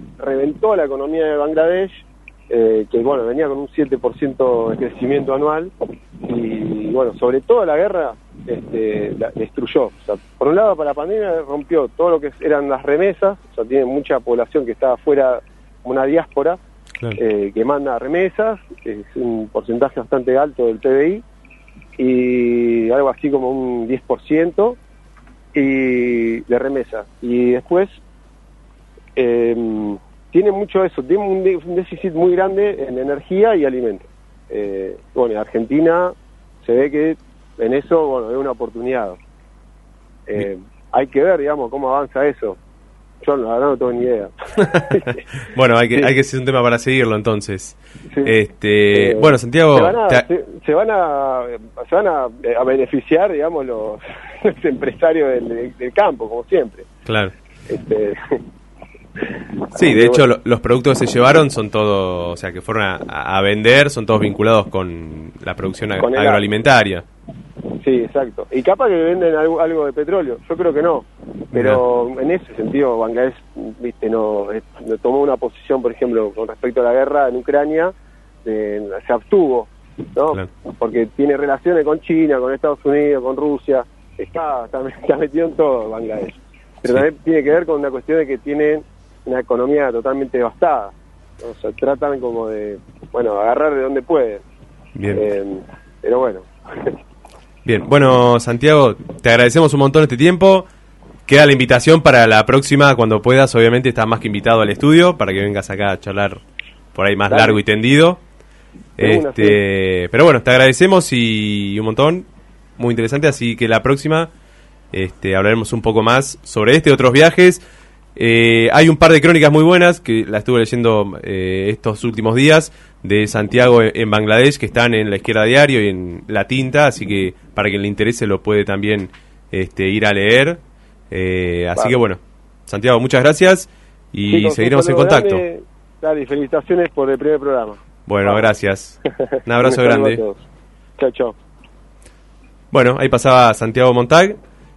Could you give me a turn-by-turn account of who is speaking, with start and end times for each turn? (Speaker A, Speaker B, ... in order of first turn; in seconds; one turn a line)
Speaker A: 0.2-16.6
Speaker A: 17.2-21.2
Speaker A: 22.0-24.8
Speaker A: 25.5-28.0
Speaker A: 29.2-39.2
Speaker A: 40.3-42.6
Speaker A: 43.2-45.2
Speaker B: 45.4-50.2
Speaker A: 48.9-56.9
Speaker B: 57.1-57.3
Speaker A: 57.7-58.4
Speaker B: 59.8-67.0
Speaker A: 59.8-60.2
Speaker A: 66.0-66.5
Speaker A: 67.8-77.9
Speaker B: 71.5-71.8
Speaker A: 78.5-94.4
Speaker B: 95.0-95.2
Speaker A: 95.1-97.0
Speaker B: 97.7-100.7
Speaker B: 101.3-106.4
Speaker B: 107.0-108.2
Speaker A: 107.3-107.6
Speaker B: 109.0-112.3
Speaker A: 109.0-109.6
Speaker B: 112.8-114.3
Speaker B: 114.9-117.6
Speaker B: 118.2-130.6
Speaker B: 131.1-135.4
Speaker A: 131.8-132.1
Speaker A: 134.3-138.5
Speaker B: 138.1-140.2
Speaker A: 139.6-140.4
Speaker A: 141.0-141.4
Speaker B: 142.7-144.4